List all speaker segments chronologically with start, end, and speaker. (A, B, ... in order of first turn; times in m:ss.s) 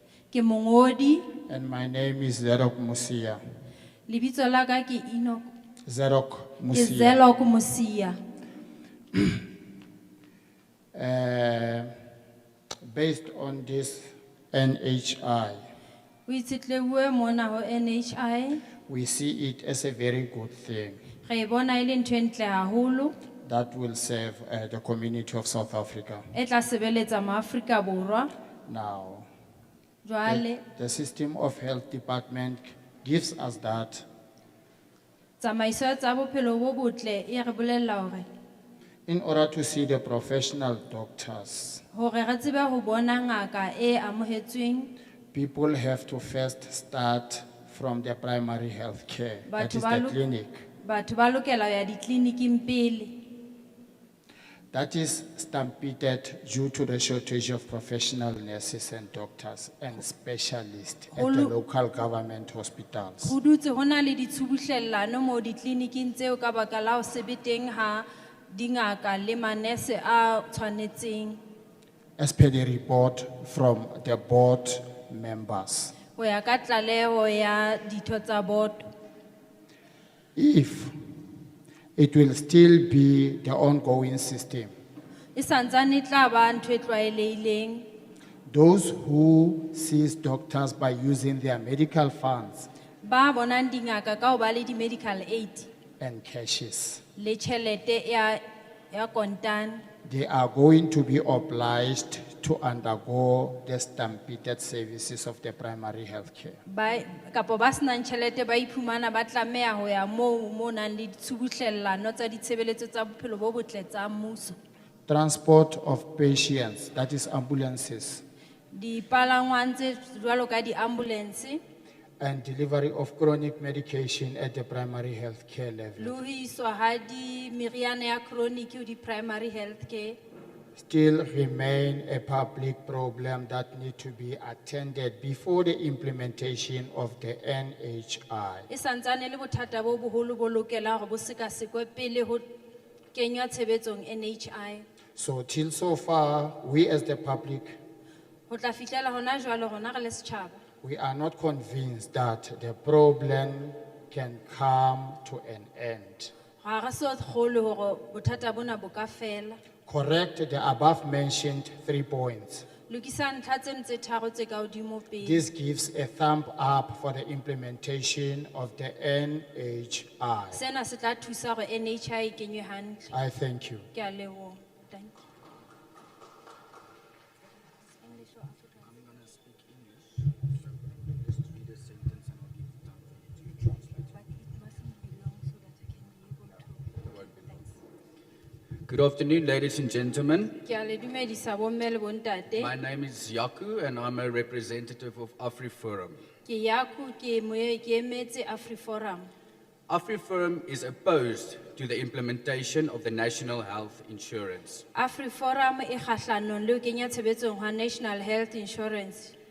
0:00.3-0:01.3 A
0:01.5-0:03.4 B
0:04.1-0:05.5 A
0:05.8-0:07.2 B
0:06.7-0:08.2 A
0:10.9-0:11.9 B
0:12.8-0:15.6 B
0:16.3-0:18.6 A
0:18.9-0:21.0 B
0:21.2-0:23.1 A
0:23.4-0:26.3 B
0:26.3-0:28.3 A
0:28.7-0:29.3 B
0:30.0-0:30.6 A
0:30.2-0:34.1 B
0:35.4-0:38.2 A
0:39.1-0:41.8 B
0:41.9-0:44.9 A
0:45.3-0:50.6 B
0:49.5-0:50.2 A
0:50.8-0:53.2 A
0:54.7-1:03.4 B
1:01.1-1:01.5 A
1:03.2-1:11.4 A
1:12.2-1:15.9 B
1:16.2-1:18.9 A
1:20.4-1:20.9 B
1:22.0-1:24.7 B
1:25.3-1:27.8 A
1:28.5-1:32.7 B
1:33.0-1:35.7 A
1:36.0-1:37.0 B
1:37.2-1:38.4 A
1:38.9-1:39.8 A
1:40.0-1:46.6 B
1:46.7-1:54.6 A
1:55.1-1:58.2 B
1:58.7-2:01.6 A
2:02.2-2:06.2 B
2:06.0-2:10.2 A
2:10.8-2:18.7 B
2:18.7-2:22.5 A
2:23.1-2:24.8 A
2:25.2-2:27.8 B
2:28.5-2:30.6 A
2:30.8-2:36.3 B
2:36.6-2:39.6 A
2:39.8-2:42.6 B
2:42.9-2:45.4 A
2:45.2-2:50.6 B
2:50.5-2:53.2 A
2:53.1-2:53.9 B
2:53.9-2:55.2 A
2:58.0-2:58.7 A
2:58.8-3:04.1 C
3:04.1-3:07.6 A
3:08.9-3:10.6 C
3:10.6-3:12.7 A
3:12.5-3:16.2 C
3:16.4-3:19.3 A
3:19.9-3:24.8 C
3:24.9-3:29.3 A